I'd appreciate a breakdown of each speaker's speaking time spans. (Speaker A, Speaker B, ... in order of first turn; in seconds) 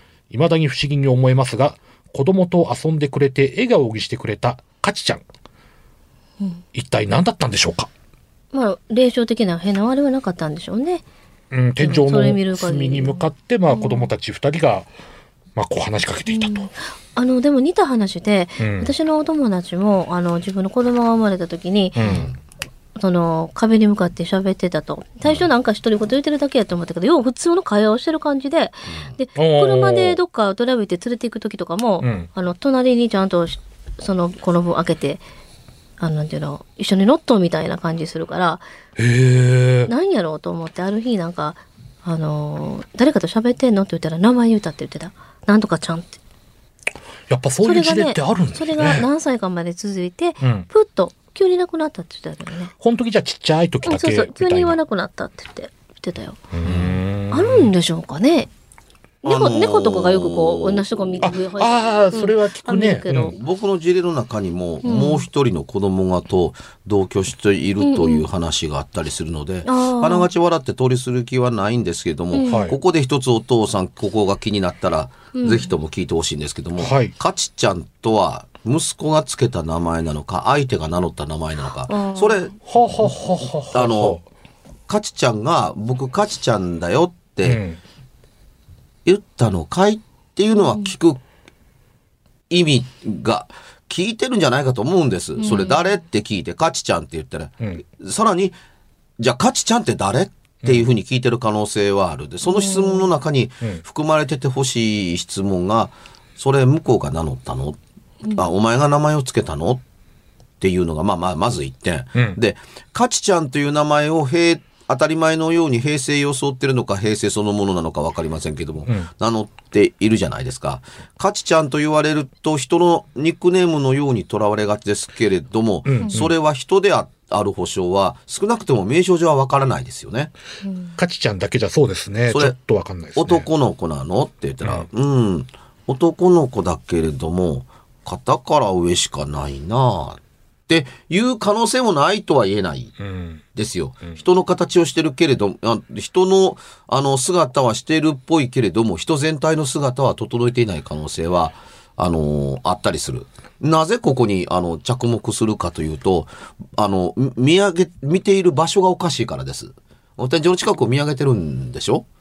Speaker A: 0.3-5.2, 6.7-7.9, 11.5-14.9, 15.6-16.7, 18.6-18.9, 21.9-22.2, 29.4-30.2, 32.0-32.3, 39.0-39.9, 47.3-49.1, 50.4-50.7, 52.8-54.8, 56.5-57.7, 61.2-63.4, 72.4-72.8, 76.8-77.1, 82.7-84.2, 87.4-87.8, 125.9-126.3, 131.0-133.5, 143.0-143.4
Speaker B: 8.5-11.0, 11.8-14.1, 16.3-22.0, 23.0-35.2, 36.0-38.6, 39.9-46.2, 47.6-52.7, 53.8-56.4, 57.3-58.5, 59.2-63.4, 64.8-65.2, 67.8-68.2, 69.6-70.3, 72.3-72.7, 75.3-75.7, 81.9-82.5, 95.4-95.8, 102.4-103.0, 130.6-130.9
Speaker C: 22.0-22.4, 56.6-57.0, 59.2-61.0, 63.3-82.5, 83.7-84.2, 84.9-87.6, 89.0-91.2, 92.5-98.5, 99.2-107.8, 108.3-109.8, 110.6-130.3, 132.3-132.5, 133.2-142.9, 143.5-162.0